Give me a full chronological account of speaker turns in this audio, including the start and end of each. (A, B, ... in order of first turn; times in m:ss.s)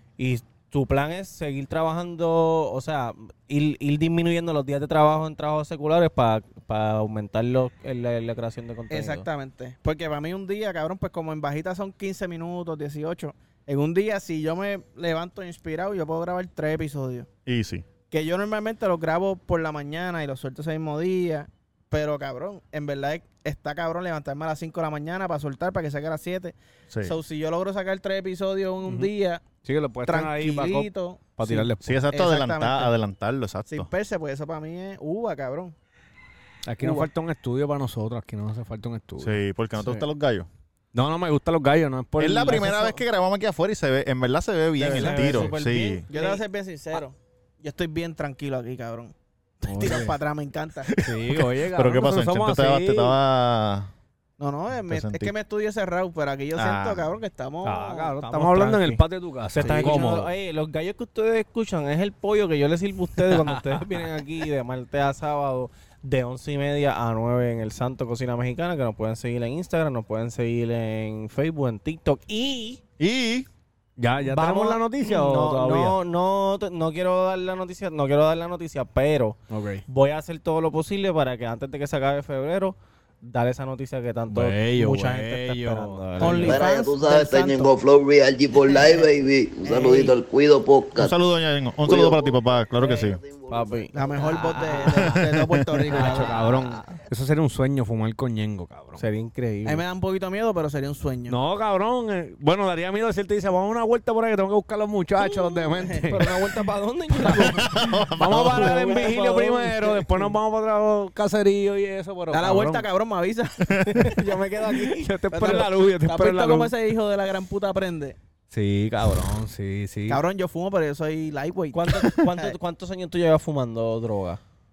0:00.2-0:09.3 A
0:08.9-0:17.3 B
0:17.4-0:17.8 C
0:18.1-0:29.4 B
0:28.8-0:29.1 D
0:29.6-0:32.0 D
0:30.0-0:32.9 B
0:31.8-0:33.9 C
0:33.7-0:35.7 B
0:36.6-0:40.0 D
0:36.8-0:37.1 B
0:39.2-0:40.5 C
0:40.9-0:42.9 D
0:42.2-0:46.0 C
0:44.8-0:46.4 A
0:44.8-0:45.5 D
0:46.1-0:50.9 B
0:49.6-0:50.2 D
0:50.9-0:53.9 C
0:51.0-0:53.2 D
0:54.4-0:58.2 B
0:54.8-0:55.3 C
0:56.5-0:57.1 C
0:57.6-1:00.3 D
0:58.2-0:59.0 A
0:59.5-1:12.8 A
0:59.6-1:00.0 B
1:03.3-1:03.8 D
1:13.0-1:13.5 C
1:14.0-1:16.0 D
1:14.2-1:26.6 A
1:19.5-1:19.8 D
1:24.3-1:26.5 D
1:26.2-1:27.7 B
1:26.4-1:31.1 E
1:29.7-1:30.1 B
1:31.0-1:33.2 C
1:31.8-1:34.2 E
1:33.5-1:35.1 A
1:33.9-1:36.6 B
1:35.0-1:35.7 C
1:35.9-1:39.0 D
1:36.0-1:36.7 A
1:39.0-1:39.8 A
1:39.6-1:41.4 B
1:41.3-1:46.4 D
1:45.2-1:47.8 A
1:47.2-1:47.6 D
1:47.2-1:48.8 C
1:48.2-1:52.9 D
1:48.3-1:50.3 A
1:52.3-1:54.2 B
1:53.9-1:55.6 A
1:54.9-1:56.7 D
1:55.3-1:58.2 B
1:58.5-2:00.2 D
2:00.1-2:02.5 B
2:01.7-2:04.4 A